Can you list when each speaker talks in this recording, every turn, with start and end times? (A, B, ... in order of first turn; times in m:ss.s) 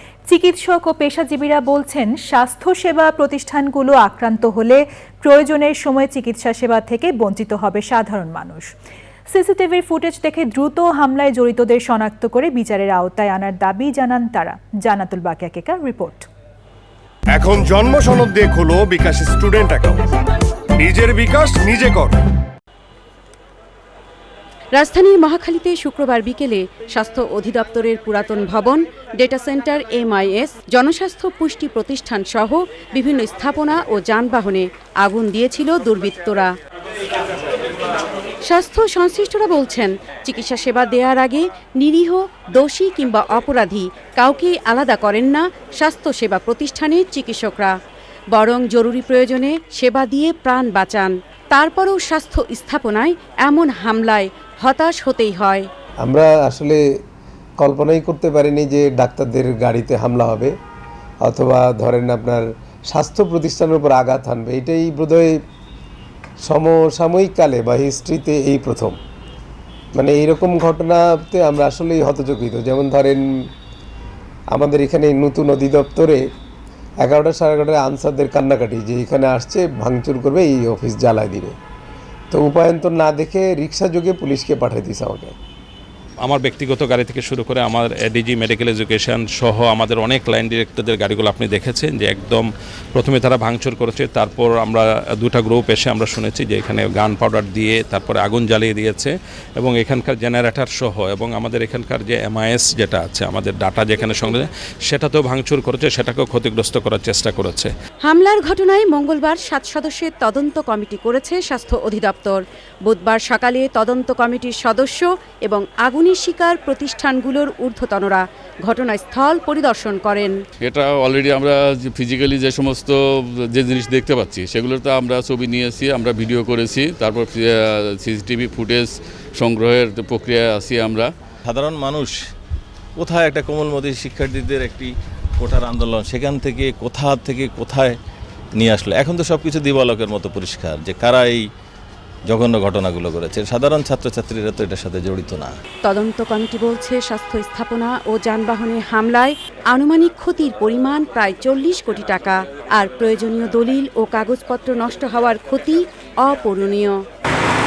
0:00.3-0:08.7 A
0:09.3-0:16.3 A
0:17.3-0:20.1 B
0:20.8-0:22.2 B
0:24.8-0:36.5 C
0:38.5-0:47.7 C
0:48.3-0:55.7 C
0:56.0-0:56.8 D
0:57.6-1:00.5 D
1:01.2-1:05.4 D
1:06.4-1:09.0 D
1:10.0-1:13.5 D
1:14.5-1:16.2 D
1:17.0-1:21.6 D
1:22.3-1:25.3 D
1:26.2-1:47.7 E
1:48.0-2:00.4 C
2:00.6-2:11.1 F
2:11.4-2:12.2 G
2:13.0-2:18.0 G
2:18.6-2:21.5 G
2:22.3-2:25.5 G
2:25.8-2:37.0 C